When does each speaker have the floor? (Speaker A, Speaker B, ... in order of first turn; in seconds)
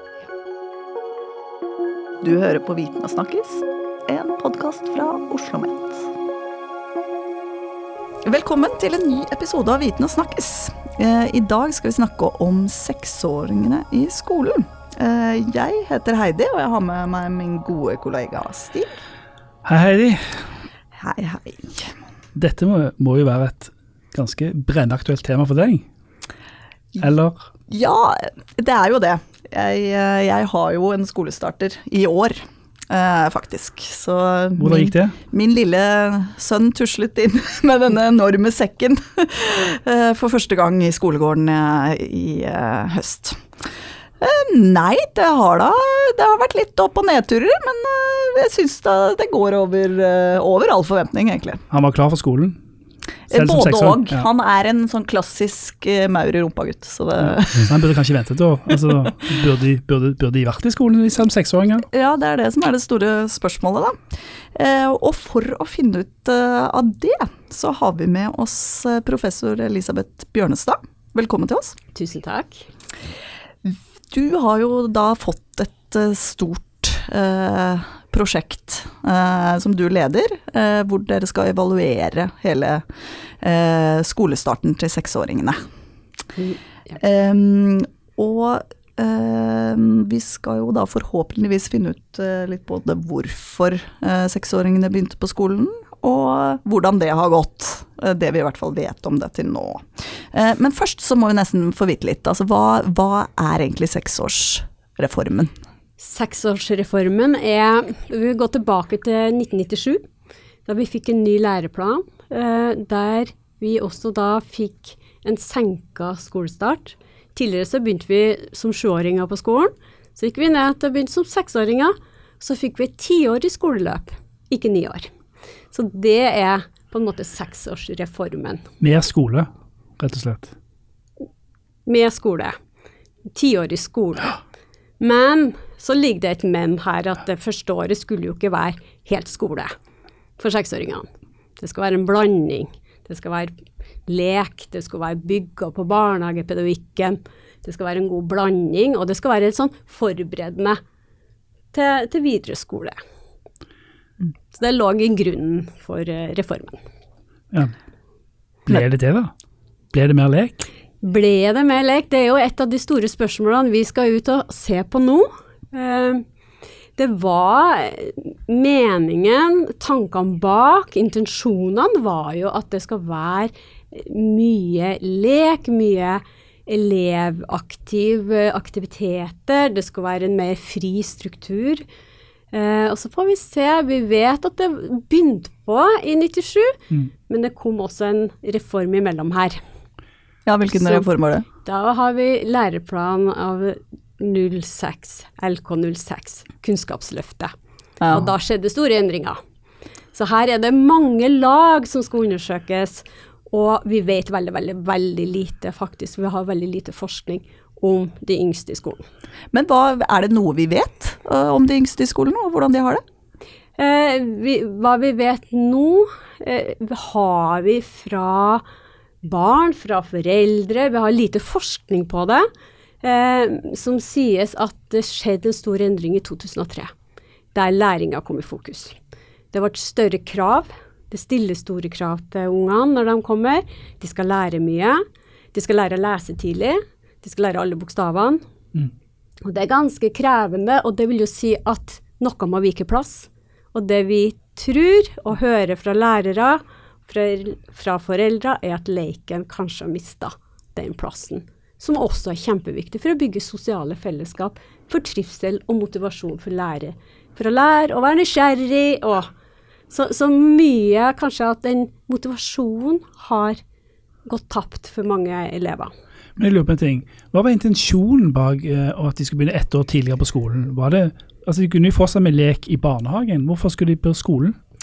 Speaker A: 2.2-6.1, 8.2-19.0, 21.0-21.9, 27.7-43.5, 44.2-51.6, 53.3-57.7, 61.9-71.8, 73.6-82.9, 83.4-85.6, 87.0-105.5, 190.5-191.5, 198.0-198.3, 209.5-213.0
Speaker B: 19.6-20.6, 22.4-25.9, 27.0-27.5, 34.6-35.2, 51.7-52.6, 53.3-54.3, 57.3-61.9, 128.8-129.5, 130.0-130.5, 158.7-159.3, 159.9-160.7, 266.4-274.6
Speaker C: 72.0-72.7, 106.0-110.0, 110.7-125.1, 125.7-128.7, 131.9-132.6, 133.3-134.4, 135.0-139.7, 140.4-141.1, 141.6-150.8, 151.7-153.0, 154.5-156.8, 161.0-166.2, 167.0-181.8, 182.5-189.6, 190.8-191.1, 191.7-197.5, 198.1-199.4, 200.1-209.1, 213.8-218.6, 219.2-222.5, 223.0-226.9, 227.5-229.0, 229.5-238.4, 239.4-259.3, 259.9-263.6, 264.3-265.9